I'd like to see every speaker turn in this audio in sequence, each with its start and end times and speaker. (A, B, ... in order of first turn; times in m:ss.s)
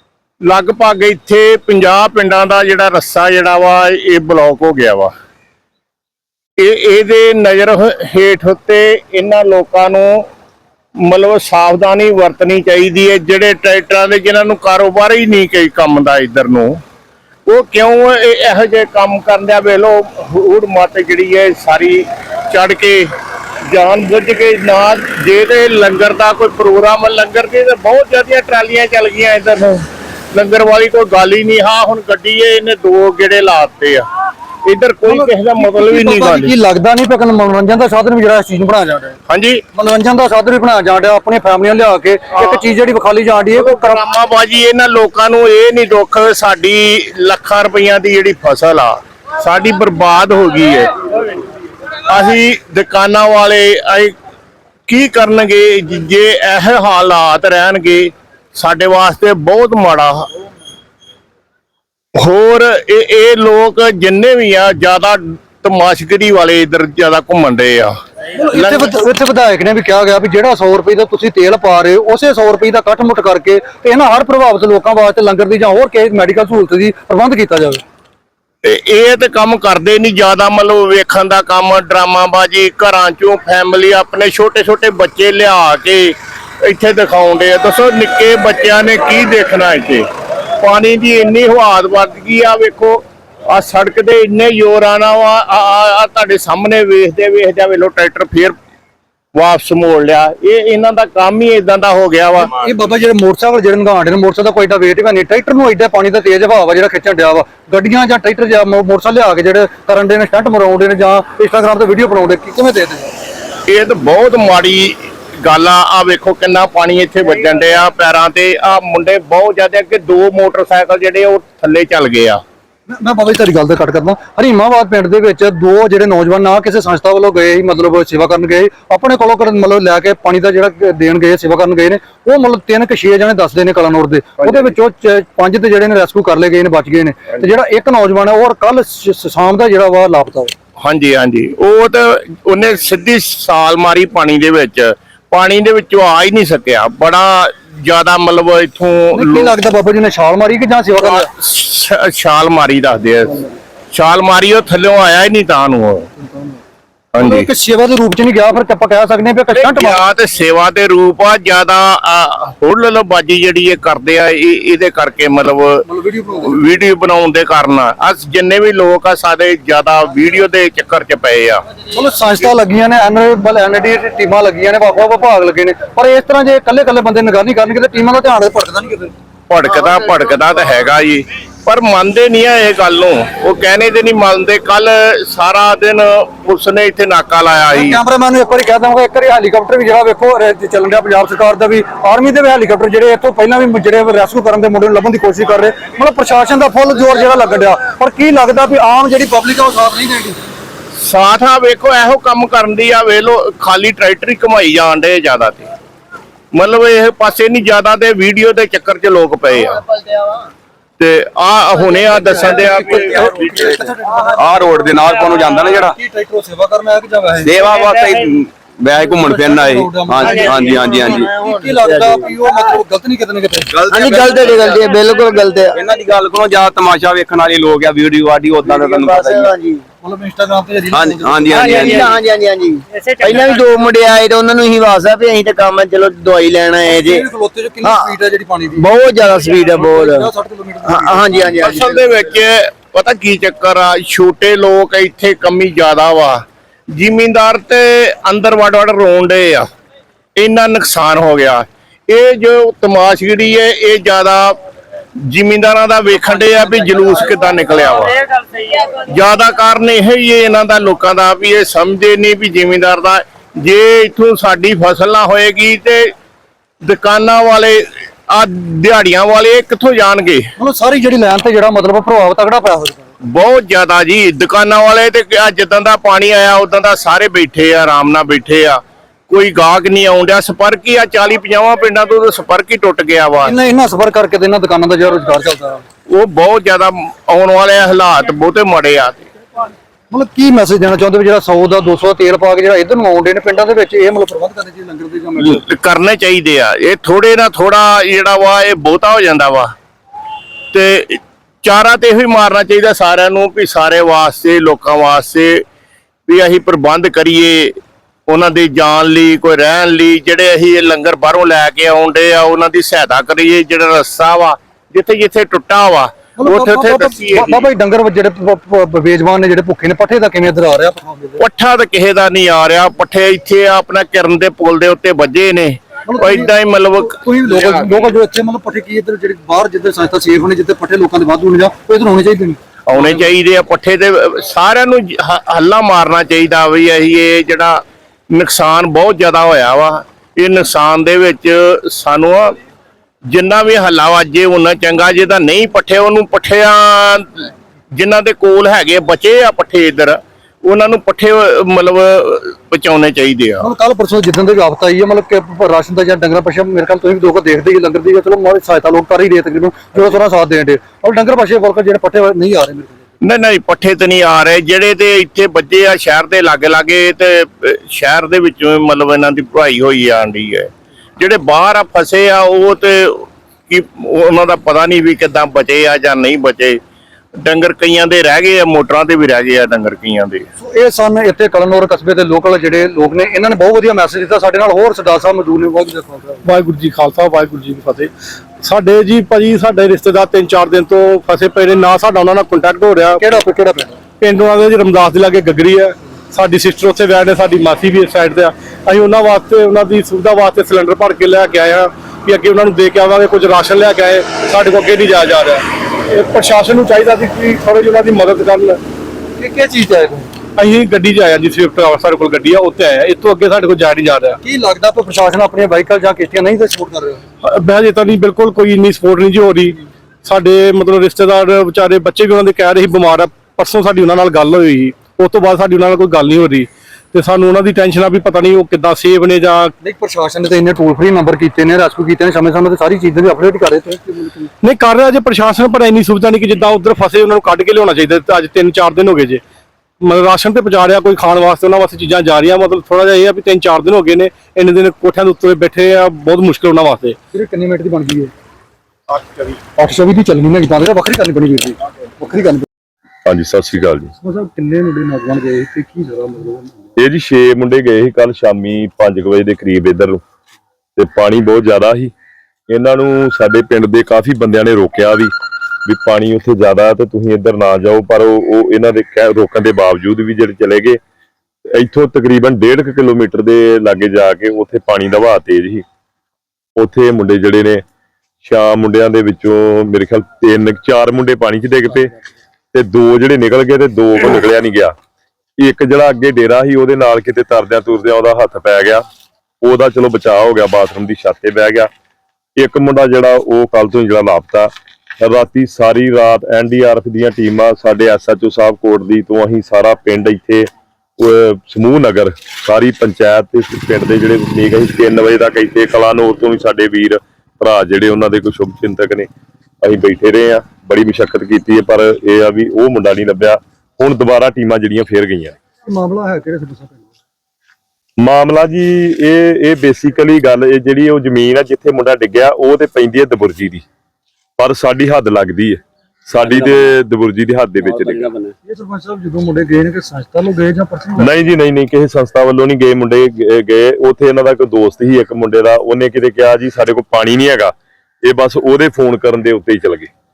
0:00.5-0:05.1 A
0:06.6-0:10.2 A
0:11.0-0:16.8 A
0:17.5-0:23.1 A
0:23.7-0:34.0 A
0:34.7-0:36.5 A
0:35.0-0:39.2 B
0:39.3-0:39.6 A
0:39.7-0:44.0 B
0:42.4-0:42.6 A
0:43.5-0:51.3 A
0:52.1-0:54.1 A
0:54.9-1:00.3 A
1:02.2-1:07.9 A
1:08.4-1:17.8 B
1:08.5-1:08.9 A
1:18.6-1:30.0 A
1:30.6-1:38.5 A
1:39.3-1:42.5 A
1:42.4-1:53.1 B
1:53.7-2:02.4 A
2:02.9-2:20.5 B
2:20.8-2:29.5 A
2:29.1-2:31.3 B
2:31.0-2:33.4 A
2:33.9-2:36.0 A
2:36.2-2:36.6 B
2:37.2-2:37.5 A
2:37.2-2:40.0 B
2:39.5-2:45.8 A
2:45.9-2:46.6 B
2:46.4-2:51.6 A
2:51.9-2:59.1 B
2:59.5-3:08.0 A
3:07.7-3:20.4 B
3:21.0-3:25.7 A
3:26.5-3:29.8 A
3:31.0-3:33.1 A
3:32.2-3:37.6 B
3:33.1-3:36.0 C
3:37.4-3:41.3 C
3:38.9-3:43.8 B
3:40.2-3:42.3 D
3:43.7-3:45.0 C
3:43.9-3:45.8 D
3:45.7-3:49.5 C
3:48.6-3:49.8 D
3:50.0-3:52.0 B
3:50.9-3:52.2 C
3:51.5-3:57.2 D
3:56.8-4:01.7 B
3:57.8-3:58.2 D
3:58.7-4:00.3 D
4:00.8-4:01.9 D
4:01.6-4:09.7 A
4:10.4-4:14.6 A
4:15.3-4:26.1 A
4:26.8-4:30.5 A
4:30.6-4:33.1 B
4:33.3-4:43.5 A
4:43.4-4:45.8 B
4:46.1-4:49.3 A
4:50.1-4:55.6 B
4:55.4-4:59.7 A
5:00.7-5:05.6 A
5:06.3-5:07.8 A
5:08.3-5:17.6 A
5:16.4-5:21.4 B
5:21.4-5:27.9 A
5:26.1-5:33.3 B
5:32.9-5:42.6 A
5:43.3-5:53.7 A
5:53.6-6:03.0 B
6:03.2-6:16.8 A
6:17.4-6:20.4 A
6:20.6-6:26.4 B
6:26.4-6:33.2 E
6:33.2-6:34.0 B
6:34.2-6:48.8 E
6:49.4-6:50.3 B
6:50.6-6:54.4 E
6:54.4-6:57.2 B
6:57.4-7:09.7 E
7:09.8-7:14.5 B
7:14.6-7:19.4 E
7:20.0-7:27.2 E
7:27.3-7:28.3 B
7:29.1-7:29.5 E
7:29.8-7:32.6 B
7:33.3-7:34.1 F
7:34.2-7:36.9 B
7:37.0-7:40.2 F
7:41.0-7:42.1 F
7:42.7-7:45.3 F
7:45.8-7:51.0 F
7:51.7-7:55.8 F
7:56.8-7:57.8 F
7:58.4-8:02.1 F
8:02.7-8:04.9 F
8:05.6-8:09.0 F
8:09.6-8:11.9 F
8:12.6-8:20.7 F
8:21.2-8:29.3 F
8:29.8-8:35.6 F
8:35.9-8:37.0 B
8:38.2-8:43.8 F
8:44.6-8:48.3 F
8:48.0-8:48.5 C
8:48.6-8:51.4 B
8:51.2-9:00.1 F